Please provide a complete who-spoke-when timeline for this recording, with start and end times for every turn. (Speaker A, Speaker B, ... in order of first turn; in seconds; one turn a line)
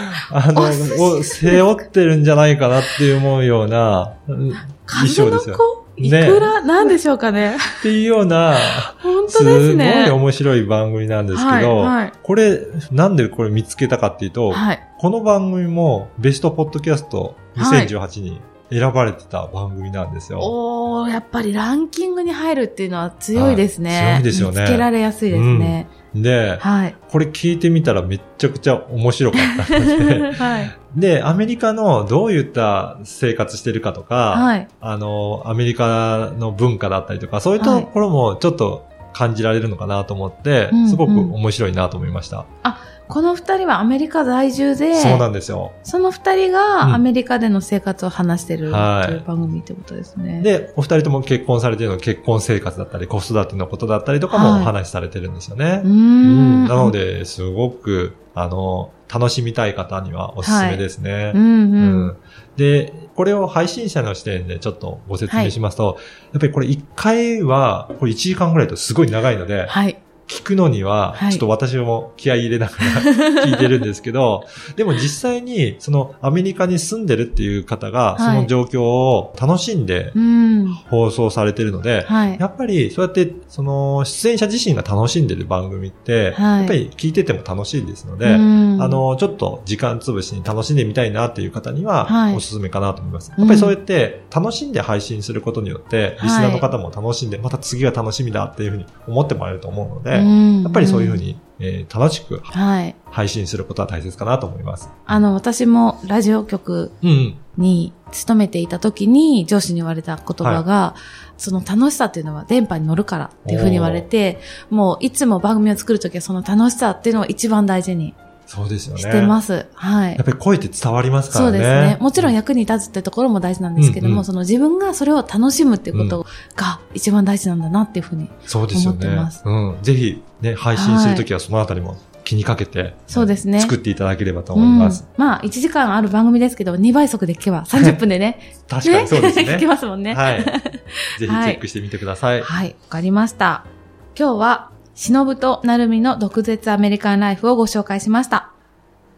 Speaker A: 0.2-7.0
Speaker B: 0.5-1.8
Speaker B: 4.8-7.8
Speaker A: 7.7-20.5
Speaker B: 8.6-10.2
Speaker B: 11.3-12.1
Speaker B: 14.5-14.8
Speaker B: 17.6-17.9
Speaker B: 20.4-25.9
Speaker A: 23.4-42.5
Speaker B: 26.6-27.0
Speaker B: 29.4-30.7
Speaker B: 34.3-34.7
Speaker B: 37.6-37.9
Speaker B: 40.7-41.4
Speaker B: 42.6-45.3
Speaker A: 44.9-45.8
Speaker B: 45.8-50.5
Speaker A: 48.7-49.3
Speaker A: 50.4-80.2
Speaker B: 54.3-54.7
Speaker B: 55.8-57.0
Speaker B: 60.4-62.1
Speaker B: 65.3-65.5
Speaker B: 69.7-70.0
Speaker B: 71.2-71.4
Speaker B: 72.9-73.7
Speaker B: 78.2-78.5
Speaker B: 80.2-80.8
Speaker A: 80.7-102.5
Speaker B: 82.0-82.4
Speaker B: 86.3-86.8
Speaker B: 88.2-89.0
Speaker B: 92.1-92.4
Speaker B: 93.4-93.8
Speaker B: 96.2-96.7
Speaker B: 100.1-101.2
Speaker B: 102.5-103.0
Speaker A: 103.1-105.1
Speaker B: 105.1-107.0
Speaker A: 107.0-107.4
Speaker B: 107.5-118.2
Speaker A: 113.5-114.1
Speaker A: 118.5-119.4
Speaker B: 119.0-120.2
Speaker A: 120.2-122.3
Speaker B: 121.3-129.4
Speaker A: 123.8-124.3
Speaker A: 125.9-126.2
Speaker A: 128.5-135.0
Speaker B: 130.7-131.3
Speaker B: 133.1-133.7
Speaker B: 134.5-141.6
Speaker A: 137.7-138.0
Speaker A: 138.7-140.6
Speaker A: 141.2-142.5
Speaker B: 142.4-148.5